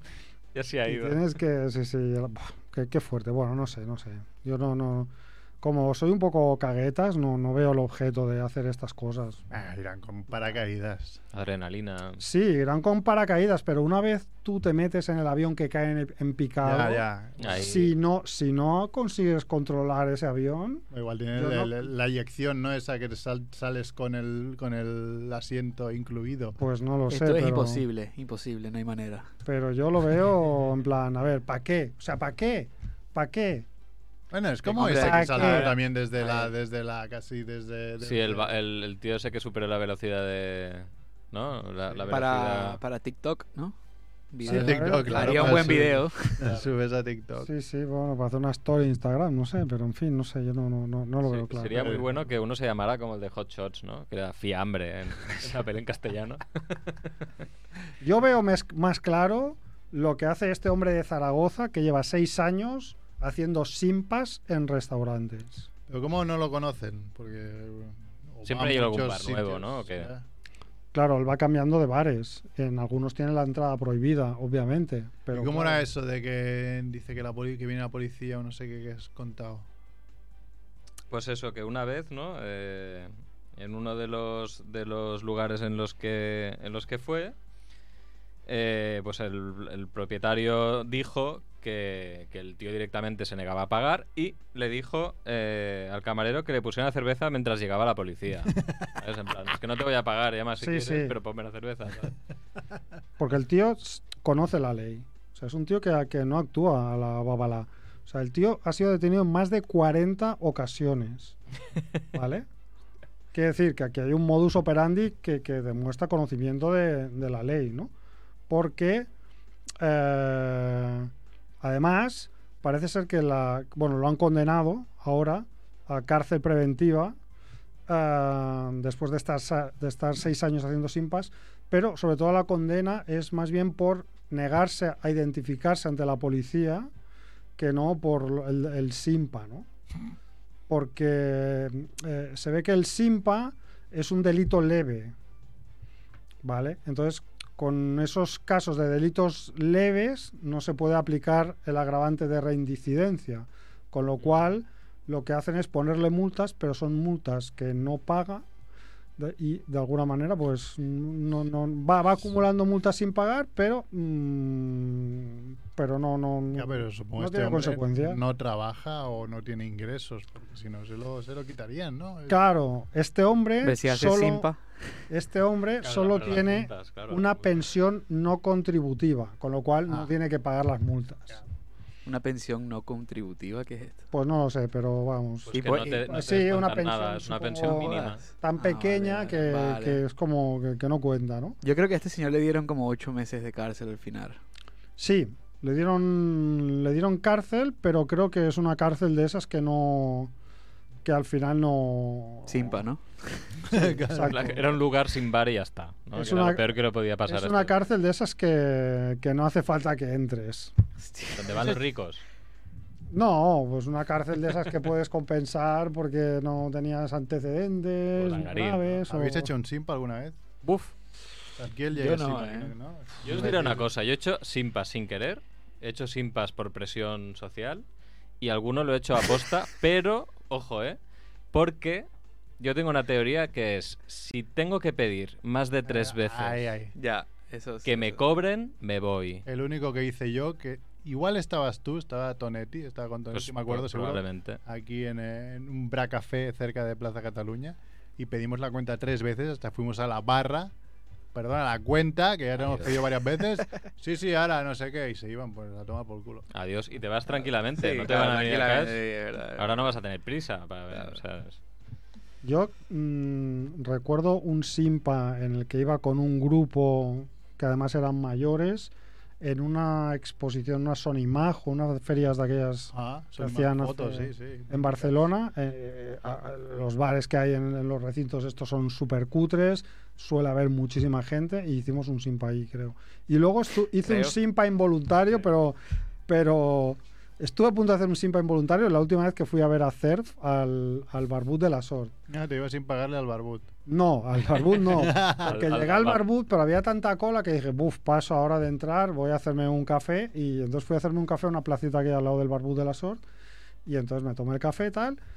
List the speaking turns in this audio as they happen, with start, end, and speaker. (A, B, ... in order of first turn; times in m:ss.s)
0:00.6-0:01.2 A
0:00.9-0:09.4 B
0:09.5-0:11.2 C
0:11.3-0:12.2 A
0:12.2-0:20.8 B
0:16.6-0:17.6 C
0:17.4-0:17.9 A
0:20.9-0:26.6 C
0:21.4-0:21.9 B
0:26.6-0:27.8 B
0:27.1-0:29.3 D
0:29.5-0:33.7 B
0:34.3-0:38.5 C
0:34.6-0:36.5 D
0:34.8-0:35.7 B
0:38.0-0:42.8 A
0:41.9-0:42.1 C
0:42.1-0:43.8 D
0:44.3-0:46.5 D
0:44.4-0:47.5 C
0:44.4-0:45.7 B
0:47.4-0:52.0 B
0:51.2-0:57.0 A
0:51.7-0:52.2 C
0:58.0-1:05.7 B
1:05.9-1:10.2 C
1:08.4-1:10.1 A
1:10.9-1:15.9 B
1:15.3-1:19.7 C
1:21.1-1:27.4 A
1:28.5-1:42.2 A
1:40.6-1:41.1 B
1:43.2-1:51.4 B
1:52.1-1:52.5 B
1:53.3-1:57.9 B
1:58.5-1:59.1 B
1:59.8-2:01.1 B
2:01.6-2:07.1 B
2:07.9-2:16.9 B
2:17.6-2:19.7 B
2:20.7-2:25.1 B
2:26.4-2:38.4 B
2:39.2-2:48.2 B
2:46.5-2:52.4 C
2:52.3-2:54.5 B
2:53.6-2:54.6 D
2:55.1-3:01.4 B
2:55.8-2:57.6 A
3:02.0-3:04.0 D
3:04.1-3:11.6 B
3:05.5-3:08.2 A
3:05.5-3:06.0 D
3:07.6-3:10.0 D
3:11.6-3:14.4 D
3:15.0-3:20.3 B
3:21.0-3:22.8 B
3:22.5-3:23.8 D
3:23.7-3:24.7 C
3:23.9-3:24.6 B
3:24.2-3:27.7 A
3:26.1-3:26.7 B
3:27.3-3:30.7 B
3:31.0-3:31.8 D
3:31.3-3:32.2 A
3:33.1-3:39.5 B
3:38.2-3:38.8 A
3:38.9-3:40.4 C
3:40.6-3:40.9 A
3:41.6-3:43.9 C
3:41.9-3:42.7 D
3:43.2-3:47.8 A
3:48.4-3:51.0 A
3:51.5-3:52.1 A
3:52.6-3:56.7 A
3:55.8-3:57.0 C
3:57.0-3:58.2 D
3:57.8-3:59.4 A
3:59.4-4:10.7 C
4:03.3-4:04.6 A
4:11.3-4:16.5 C
4:12.6-4:12.9 A
4:16.5-4:19.0 A
4:17.3-4:20.0 D
4:19.6-4:21.6 A
4:22.4-4:45.8 B
4:32.9-4:35.3 C
4:44.0-4:44.4 D
4:46.3-4:52.1 B
4:52.3-4:53.7 C
4:53.9-5:03.2 B
4:54.9-4:55.5 C
4:55.4-4:56.2 A
5:03.9-5:05.2 B